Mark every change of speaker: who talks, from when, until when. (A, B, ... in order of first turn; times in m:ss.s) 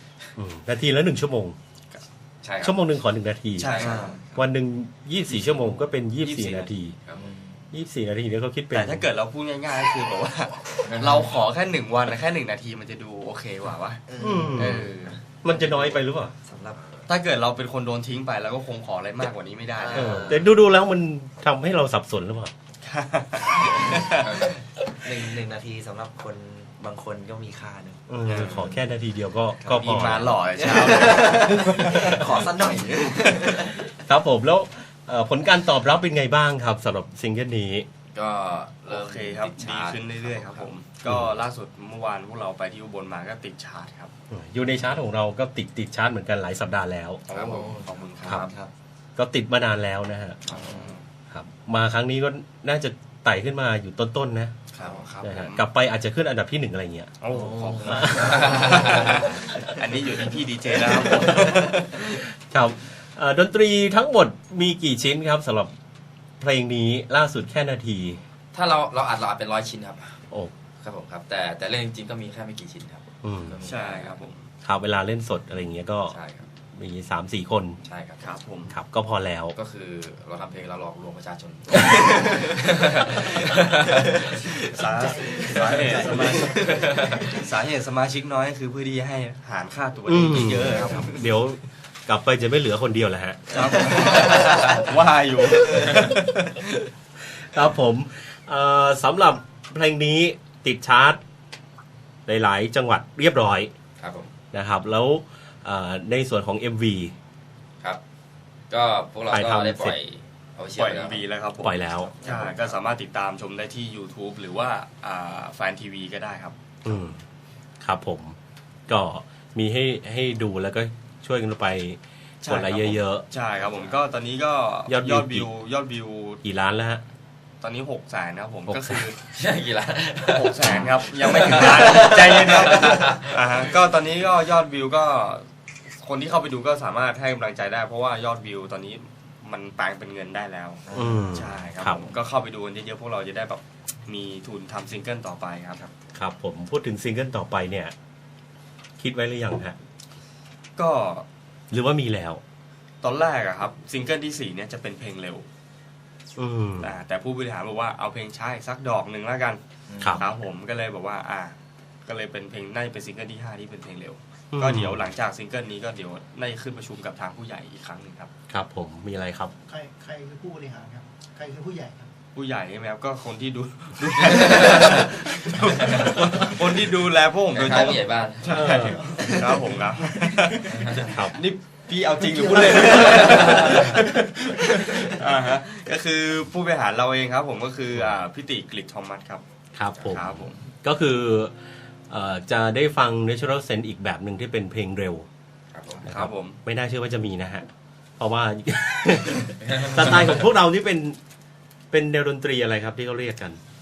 0:00.4-0:01.6 A
0:02.4-0:02.8 B
0:02.6-0:03.8 A
0:03.6-0:04.2 C
0:03.7-0:04.1 B
0:03.7-0:04.5 D
0:04.4-0:07.0 A
0:05.3-0:06.7 C
0:07.2-0:07.7 D
0:07.7-0:09.1 A
0:08.7-0:15.2 C
0:10.8-0:11.3 B
0:14.1-0:16.8 D
0:14.2-0:14.9 A
0:15.4-0:16.3 A
0:17.1-0:20.3 C
0:19.7-0:20.5 D
0:19.9-0:22.5 A
0:22.8-0:24.6 C
0:24.1-0:24.6 B
0:24.9-0:28.8 D
0:28.1-0:30.4 A
0:28.3-0:28.5 C
0:28.3-0:28.7 B
0:29.6-0:33.9 D
0:29.7-0:31.7 C
0:33.9-0:37.9 A
0:38.1-0:40.7 B
0:38.9-0:44.1 C
0:41.1-0:41.3 A
0:44.3-0:47.2 A
0:47.3-0:48.4 C
0:47.3-0:48.7 D
0:47.4-0:48.5 B
0:48.2-0:48.5 A
0:49.2-0:50.4 A
0:50.5-0:50.9 B
0:50.5-0:51.0 D
0:51.3-0:54.6 A
0:54.7-0:55.6 C
0:54.8-0:55.1 B
0:55.2-1:00.1 A
0:57.2-1:01.9 C
0:57.3-0:59.2 D
0:58.2-0:59.1 B
1:00.8-1:05.7 A
1:06.4-1:08.2 A
1:08.5-1:10.2 B
1:10.8-1:14.2 B
1:13.2-1:13.6 A
1:13.6-1:14.5 C
1:14.6-1:16.2 A
1:16.1-1:16.5 B
1:16.7-1:17.8 A
1:17.8-1:18.3 B
1:18.2-1:18.7 C
1:18.7-1:19.6 A
1:19.5-1:24.3 B
1:22.1-1:22.6 D
1:24.5-1:31.2 C
1:24.7-1:27.4 E
1:25.3-1:26.5 D
1:26.7-1:27.3 B
1:30.1-1:34.1 A
1:33.5-1:36.7 C
1:37.3-1:41.2 A
1:42.3-1:43.7 A
1:44.0-1:44.3 B
1:44.5-1:47.2 A
1:48.7-1:51.3 B
1:49.3-1:50.0 A
1:50.8-1:56.6 C
1:51.6-1:52.1 A
1:51.9-1:52.8 B
1:56.8-1:57.2 A
1:57.8-1:58.4 A
1:58.9-2:03.3 A
2:02.4-2:06.4 C
2:04.9-2:05.5 A
2:06.4-2:07.0 A
2:07.6-2:09.2 C
2:08.7-2:09.1 A
2:09.2-2:13.4 B
2:10.3-2:25.8 C
2:20.9-2:21.6 D
2:20.9-2:22.1 A
2:26.1-2:27.9 A
2:29.0-2:29.8 A
2:30.8-2:31.3 C
2:31.7-2:32.4 A
2:33.0-2:35.5 C
2:36.4-2:37.0 A
2:36.8-2:39.6 C
2:39.9-2:40.4 D
2:40.0-2:40.3 A
2:40.2-2:48.3 C
2:44.5-2:45.0 A
2:48.5-2:49.5 A
2:49.6-2:52.1 E
2:52.3-3:09.4 C
2:54.4-2:55.1 B
2:55.7-2:56.2 B
2:57.5-2:58.8 B
2:58.5-2:59.1 A
2:58.7-2:59.4 E
2:59.2-2:59.6 D
3:00.3-3:00.8 E
3:00.6-3:01.2 B
3:01.1-3:01.4 A
3:02.4-3:03.4 D
3:02.8-3:04.0 B
3:09.8-3:11.5 A
3:10.1-3:10.6 C
3:12.1-3:15.3 A
3:15.7-3:16.0 B
3:16.0-3:16.6 C
3:16.0-3:17.7 A
3:18.2-3:21.2 A
3:19.6-3:20.5 B
3:21.9-3:23.6 A